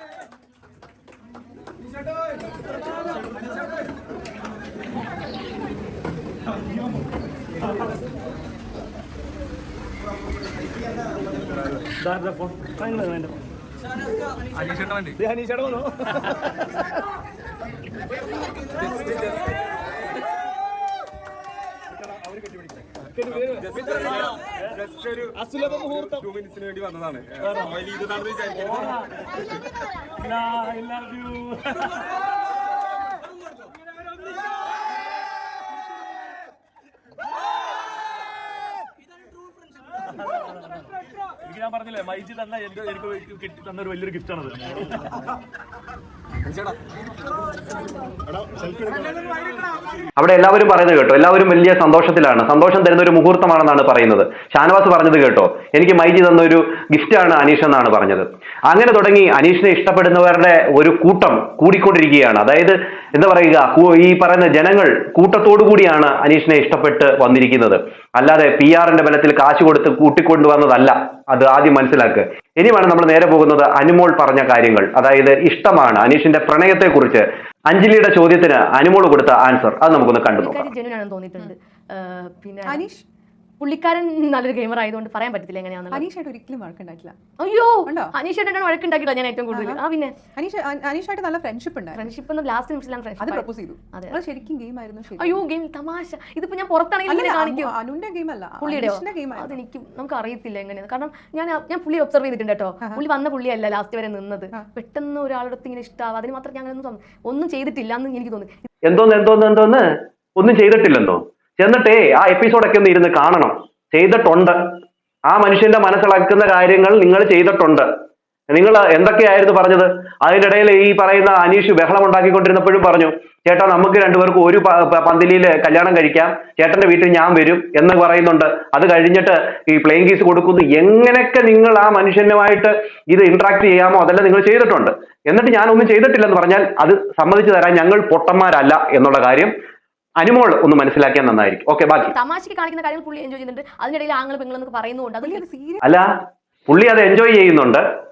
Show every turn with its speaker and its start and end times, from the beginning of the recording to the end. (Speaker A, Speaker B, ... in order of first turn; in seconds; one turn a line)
Speaker A: 23.4-24.0
Speaker A: 24.8-25.3
Speaker A: 26.0-27.3
Speaker B: 41.5-44.1
Speaker C: 50.2-80.7
Speaker D: 80.4-82.8
Speaker E: 82.7-83.0
Speaker D: 83.6-86.0
Speaker E: 85.9-87.2
Speaker D: 87.4-90.2
Speaker E: 87.8-88.1
Speaker E: 89.5-89.8
Speaker E: 90.3-92.0
Speaker D: 91.9-94.2
Speaker E: 93.2-95.4
Speaker D: 95.2-97.7
Speaker E: 97.1-99.5
Speaker D: 98.6-108.5
Speaker C: 108.8-109.8
Speaker C: 110.4-114.6
Speaker C: 115.3-117.9
Speaker C: 118.5-139.5
Speaker C: 140.2-142.1
Speaker D: 142.0-145.4
Speaker E: 145.2-145.8
Speaker C: 145.8-146.1
Speaker C: 146.7-147.8